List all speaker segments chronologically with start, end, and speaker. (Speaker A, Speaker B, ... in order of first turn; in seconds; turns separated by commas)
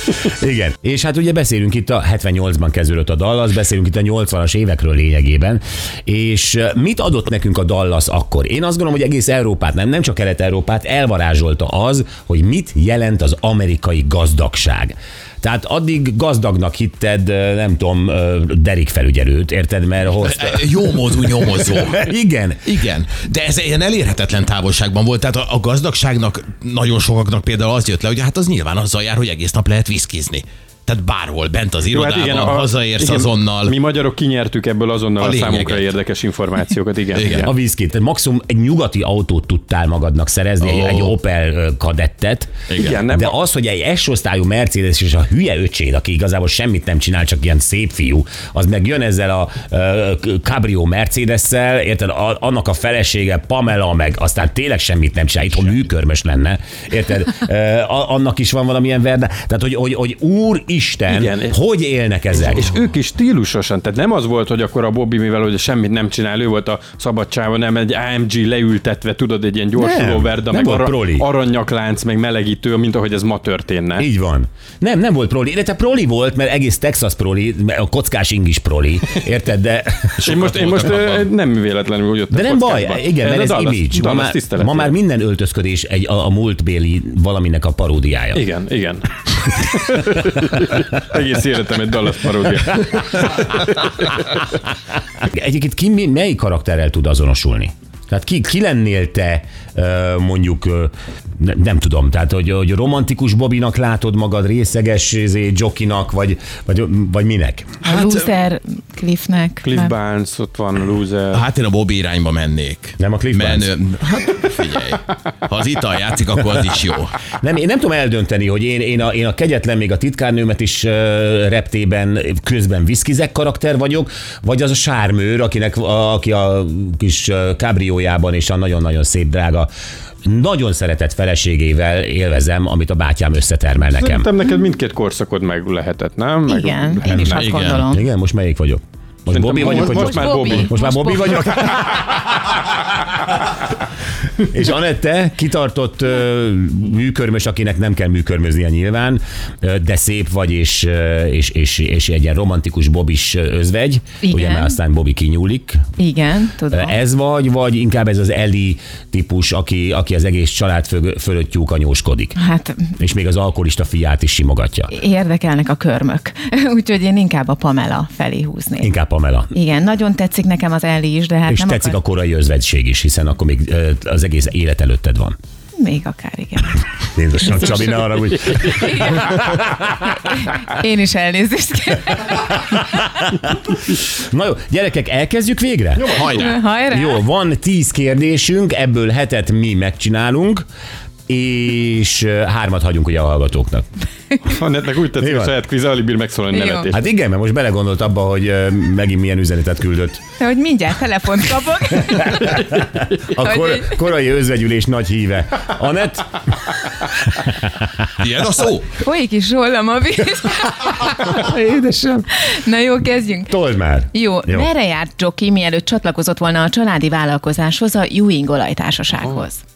Speaker A: 0.2-22.8, Speaker B: 20.1-22.1, Speaker B: 22.6-33.8, Speaker C: 31.9-37.5, Speaker B: 35.2-35.9, Speaker B: 37.1-37.5, Speaker A: 37.4-62.7, Speaker B: 40.6-41.1, Speaker B: 42.7-43.0, Speaker C: 42.8-43.4, Speaker C: 61.1-61.6, Speaker C: 62.3-74.1, Speaker A: 69.8-71.3, Speaker A: 74.0-80.2, Speaker B: 80.2-81.3, Speaker C: 80.2-84.9, Speaker A: 82.3-88.5, Speaker C: 88.3-94.3, Speaker A: 95.2-107.8, Speaker D: 107.8-109.9, Speaker C: 109.6-111.4, Speaker B: 111.3-117.2, Speaker A: 113.0-113.7, Speaker A: 117.3-129.7, Speaker A: 130.2-134.3, Speaker C: 133.9-137.4, Speaker D: 136.5-138.1, Speaker B: 137.2-137.8, Speaker A: 137.9-142.6, Speaker C: 139.3-140.7, Speaker D: 139.6-141.7, Speaker A: 144.4-155.8, Speaker D: 154.2-154.8, Speaker D: 156.0-157.0, Speaker A: 156.7-162.4, Speaker D: 162.4-162.9, Speaker A: 163.0-164.9, Speaker D: 164.9-168.9, Speaker A: 168.8-169.5, Speaker D: 169.5-172.0, Speaker A: 171.5-175.3, Speaker D: 175.8-176.8, Speaker A: 177.1-180.1, Speaker D: 177.4-183.1, Speaker A: 184.1-190.6, Speaker C: 185.9-186.5, Speaker B: 186.1-186.5, Speaker D: 186.3-187.2, Speaker A: 191.3-193.8, Speaker C: 194.4-197.0, Speaker A: 195.2-195.5, Speaker D: 196.5-196.9, Speaker A: 196.9-200.2, Speaker D: 200.4-202.7, Speaker A: 202.0-207.9, Speaker D: 203.4-204.0, Speaker B: 208.2-208.9, Speaker D: 208.9-211.4, Speaker A: 211.0-212.5, Speaker D: 212.3-213.6, Speaker A: 213.5-214.7, Speaker D: 214.1-219.6